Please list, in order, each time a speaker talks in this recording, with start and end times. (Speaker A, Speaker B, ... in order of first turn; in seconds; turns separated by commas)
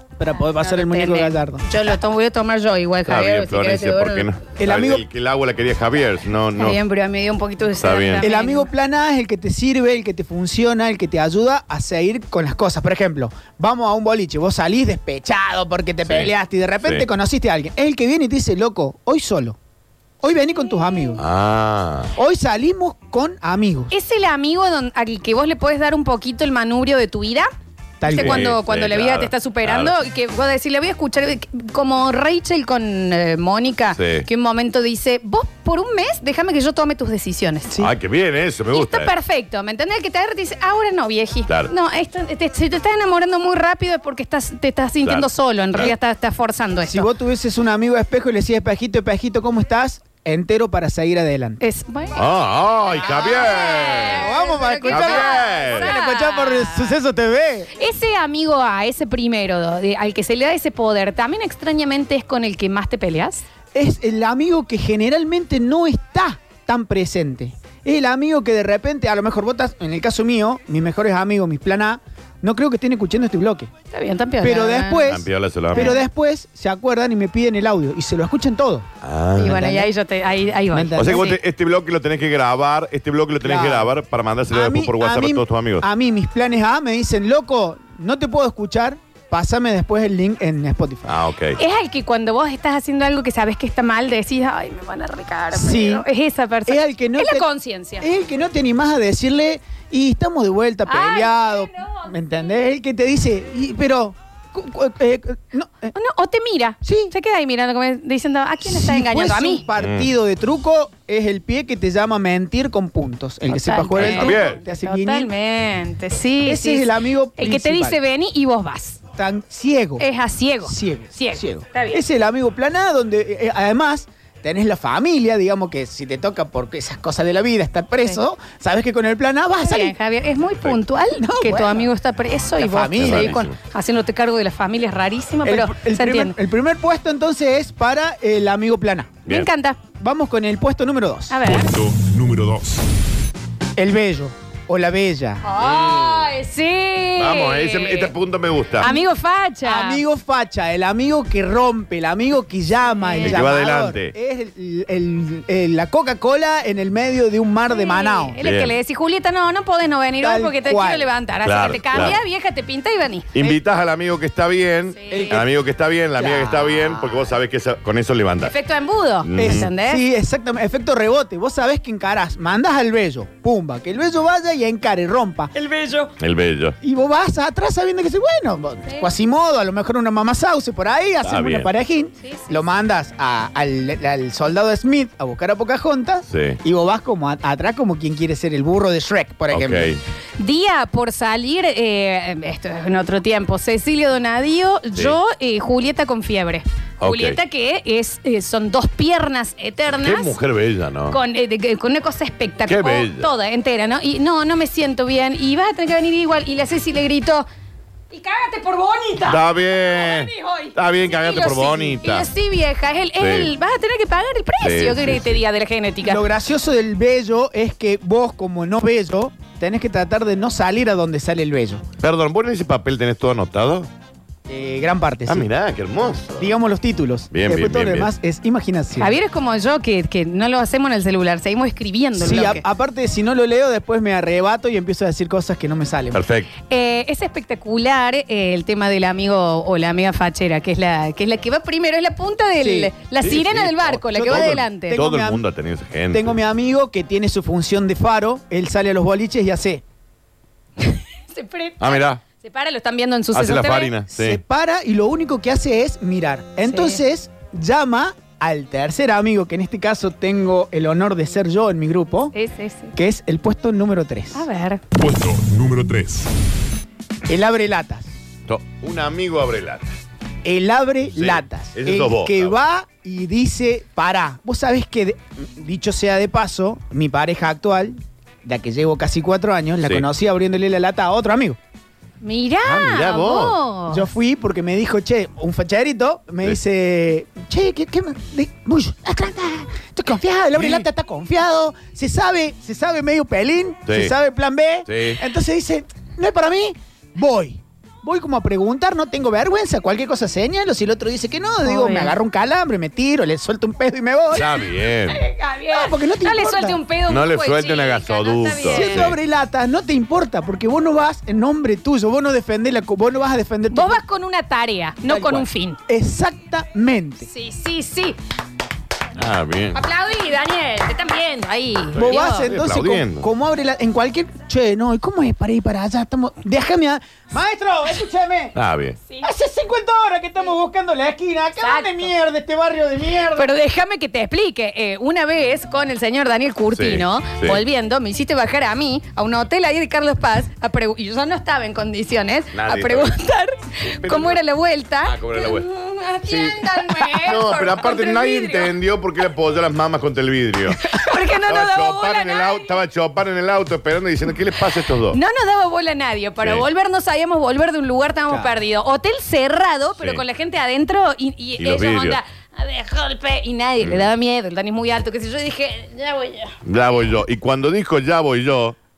Speaker A: 0.2-1.9, Speaker B: 0.5-4.3, Speaker C: 3.1-6.8, Speaker A: 4.6-5.0, Speaker B: 6.6-8.7, Speaker C: 7.8-8.3, Speaker A: 8.2-19.6, Speaker C: 16.1-16.3, Speaker A: 20.2-21.2, Speaker C: 21.2-22.1, Speaker A: 22.2-23.9, Speaker B: 23.9-27.5, Speaker A: 28.0-28.5, Speaker B: 28.1-37.7, Speaker C: 28.1-29.9, Speaker C: 34.0-34.3, Speaker C: 37.8-39.1, Speaker B: 38.7-47.1, Speaker C: 45.0-45.9, Speaker A: 46.9-51.6, Speaker B: 51.6-52.2, Speaker C: 52.1-54.3, Speaker B: 53.0-57.0, Speaker A: 53.2-57.7, Speaker C: 54.9-55.9, Speaker B: 57.8-63.5, Speaker A: 63.7-73.7, Speaker B: 73.9-75.1, Speaker A: 74.4-78.9, Speaker C: 75.1-75.9, Speaker B: 75.7-76.0, Speaker C: 79.0-79.6, Speaker B: 79.4-81.4, Speaker A: 79.4-79.9, Speaker A: 80.7-81.4, Speaker C: 81.0-85.9, Speaker A: 83.4-83.9, Speaker A: 84.5-91.2, Speaker C: 91.1-91.6, Speaker B: 91.6-98.1, Speaker A: 95.5-96.1, Speaker A: 96.7-97.5, Speaker A: 98.0-105.9, Speaker B: 100.9-102.2, Speaker B: 105.9-109.7, Speaker A: 106.8-107.1, Speaker A: 108.6-115.3, Speaker C: 109.8-110.1, Speaker B: 113.5-119.0, Speaker C: 114.0-114.6, Speaker A: 116.4-118.0, Speaker A: 119.1-120.0, Speaker B: 120.0-122.0, Speaker A: 120.6-129.9, Speaker B: 129.6-136.4, Speaker A: 131.1-131.9, Speaker A: 132.6-133.4, Speaker C: 133.0-133.6, Speaker A: 135.4-139.2, Speaker B: 139.3-139.8, Speaker A: 140.0-141.4, Speaker B: 141.3-141.7, Speaker D: 141.4-142.8, Speaker A: 143.8-145.4, Speaker B: 145.4-148.1, Speaker C: 145.6-146.3, Speaker C: 147.2-148.9, Speaker B: 148.8-150.0, Speaker A: 149.6-158.4, Speaker B: 153.0-153.4, Speaker C: 153.2-154.1, Speaker B: 157.7-163.6, Speaker C: 158.4-158.7, Speaker A: 160.2-161.1, Speaker C: 161.4-162.2, Speaker C: 163.3-168.5, Speaker B: 164.9-165.4, Speaker A: 165.1-165.5, Speaker A: 166.2-167.3, Speaker B: 168.4-170.0, Speaker C: 169.2-169.7, Speaker A: 169.4-175.6, Speaker B: 175.6-176.1, Speaker C: 176.2-176.8, Speaker A: 176.8-189.9, Speaker C: 181.2-181.7, Speaker B: 182.2-182.6, Speaker C: 186.3-186.6, Speaker C: 189.5-190.0, Speaker B: 190.4-200.3, Speaker C: 197.0-197.4, Speaker C: 199.9-201.2, Speaker B: 201.1-207.5, Speaker C: 202.7-203.3, Speaker B: 208.1-216.2, Speaker C: 209.2-212.3, Speaker C: 213.2-213.5, Speaker C: 214.6-215.4, Speaker A: 216.1-221.8, Speaker C: 222.0-223.9, Speaker A: 224.5-225.5, Speaker C: 225.3-226.6, Speaker A: 226.4-229.2, Speaker C: 227.3-228.1, Speaker B: 229.0-232.6, Speaker A: 232.2-236.2, Speaker C: 236.1-236.5, Speaker B: 236.7-245.0, Speaker A: 242.6-242.9, Speaker C: 243.2-246.3, Speaker A: 244.1-245.4, Speaker A: 246.1-249.8, Speaker B: 250.8-253.9, Speaker C: 251.8-252.2, Speaker C: 253.3-254.4, Speaker A: 254.1-262.3, Speaker B: 256.7-257.0, Speaker B: 262.3-262.9, Speaker A: 262.9-264.4, Speaker B: 264.3-264.8, Speaker D: 265.0-266.3, Speaker A: 267.3-268.1, Speaker C: 268.5-269.9, Speaker A: 270.4-281.6, Speaker C: 271.1-272.6, Speaker B: 282.2-284.1, Speaker C: 282.6-283.6, Speaker A: 283.9-304.5, Speaker C: 290.6-290.9, Speaker C: 293.9-294.1, Speaker C: 294.9-295.2, Speaker B: 301.6-302.1, Speaker C: 304.3-305.2, Speaker B: 305.1-309.1, Speaker A: 305.7-306.8, Speaker C: 307.1-309.2, Speaker A: 308.7-314.0, Speaker B: 313.7-315.8, Speaker A: 315.1-317.3, Speaker B: 317.2-318.2, Speaker C: 319.2-319.8, Speaker B: 319.7-322.5, Speaker A: 321.9-328.6, Speaker C: 322.0-323.3, Speaker C: 328.6-329.0, Speaker A: 329.2-333.5, Speaker B: 331.6-332.1, Speaker B: 333.4-348.8, Speaker C: 336.7-337.6, Speaker C: 342.5-343.1, Speaker C: 343.9-344.4, Speaker C: 345.0-345.7, Speaker C: 346.3-355.2, Speaker B: 350.8-352.7, Speaker B: 355.1-366.6, Speaker C: 356.4-356.7, Speaker C: 360.0-360.2, Speaker C: 361.6-362.2, Speaker C: 363.8-364.1, Speaker C: 366.6-368.8